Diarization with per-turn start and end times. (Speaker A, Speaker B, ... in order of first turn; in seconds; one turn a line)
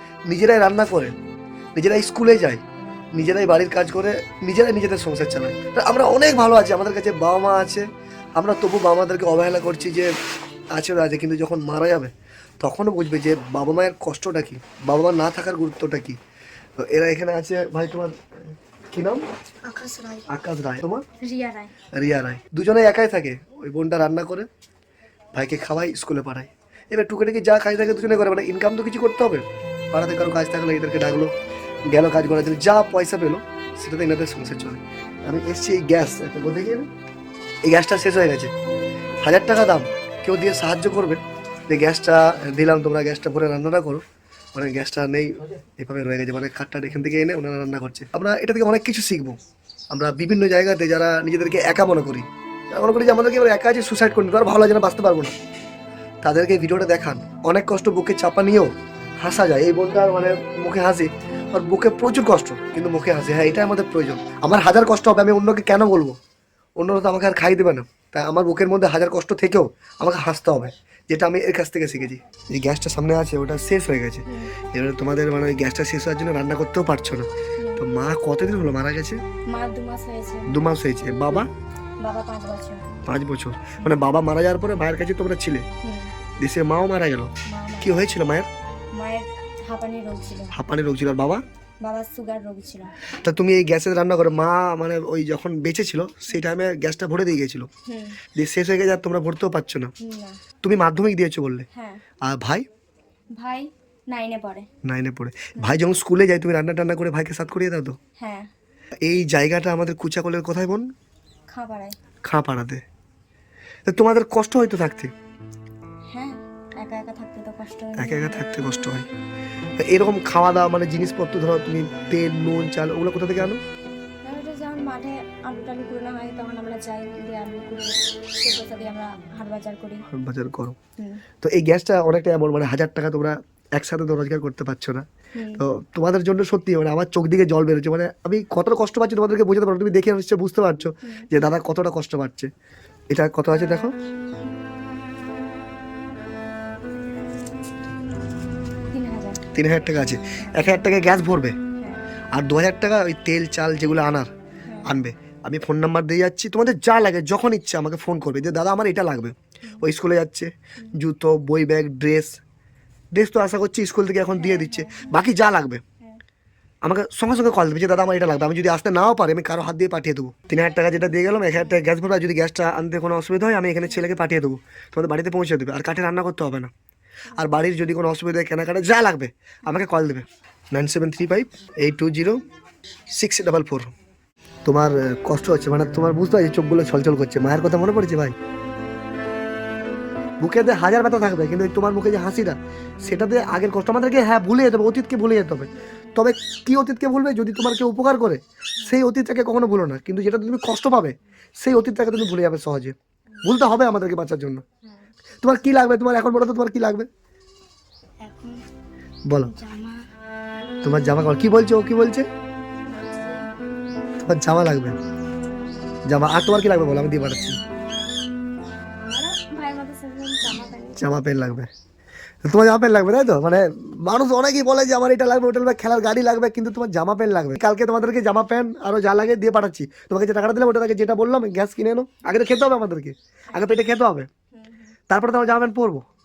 Speaker A: 0.3-1.1
Speaker A: 1.8-2.6
Speaker A: 3.1-10.1
Speaker A: 10.7-16.2
Speaker A: 16.9-19.2
Speaker B: 19.6-20.3
Speaker A: 20.3-21.1
Speaker B: 21.2-21.7
Speaker A: 21.9-24.5
Speaker A: 25.3-31.3
Speaker A: 31.9-36.9
Speaker A: 37.6-38.5
Speaker A: 39.2-44.0
Speaker A: 44.5-49.4
Speaker A: 49.9-55.3
Speaker A: 56.2-66.2
Speaker A: 66.8-79.2
Speaker B: 79.5-80.6
Speaker A: 80.5-81.5
Speaker B: 82.0-82.9
Speaker A: 83.0-85.7
Speaker B: 83.8-84.1
Speaker B: 85.8-86.1
Speaker A: 86.4-88.5
Speaker B: 87.5-88.0
Speaker B: 88.9-90.5
Speaker A: 90.5-91.4
Speaker B: 91.8-93.0
Speaker A: 93.2-97.7
Speaker B: 97.9-98.2
Speaker A: 98.4-99.9
Speaker B: 100.0-100.4
Speaker A: 100.6-101.7
Speaker B: 101.7-102.0
Speaker A: 102.2-102.7
Speaker B: 103.4-104.7
Speaker A: 104.8-108.0
Speaker B: 108.2-108.5
Speaker A: 109.0-110.9
Speaker B: 111.5-112.0
Speaker A: 112.2-112.8
Speaker A: 113.9-115.1
Speaker B: 116.1-118.4
Speaker A: 118.0-119.1
Speaker A: 119.8-123.6
Speaker B: 124.2-130.1
Speaker A: 130.1-130.8
Speaker B: 131.0-131.2
Speaker A: 131.4-135.1
Speaker B: 135.3-135.6
Speaker A: 135.6-142.5
Speaker A: 143.1-143.9
Speaker B: 148.9-149.4
Speaker A: 149.5-151.6
Speaker B: 150.4-150.8
Speaker B: 151.8-152.0
Speaker A: 152.3-154.3
Speaker B: 154.6-154.9
Speaker A: 154.8-162.4
Speaker A: 163.2-165.8
Speaker B: 164.4-165.2
Speaker A: 166.8-176.7
Speaker B: 171.5-171.8
Speaker B: 177.3-177.6
Speaker A: 177.3-182.4
Speaker A: 183.1-183.9
Speaker A: 184.7-188.4
Speaker A: 190.4-204.6
Speaker B: 195.8-196.2
Speaker B: 204.8-205.1
Speaker A: 205.4-207.1
Speaker B: 208.2-208.6
Speaker B: 209.4-210.0
Speaker A: 210.8-212.3
Speaker B: 212.9-213.5
Speaker A: 214.2-215.0
Speaker A: 216.1-217.6
Speaker B: 219.0-221.2
Speaker A: 221.0-221.7
Speaker A: 222.4-234.3
Speaker B: 233.5-233.8
Speaker B: 234.5-234.9
Speaker A: 235.1-236.1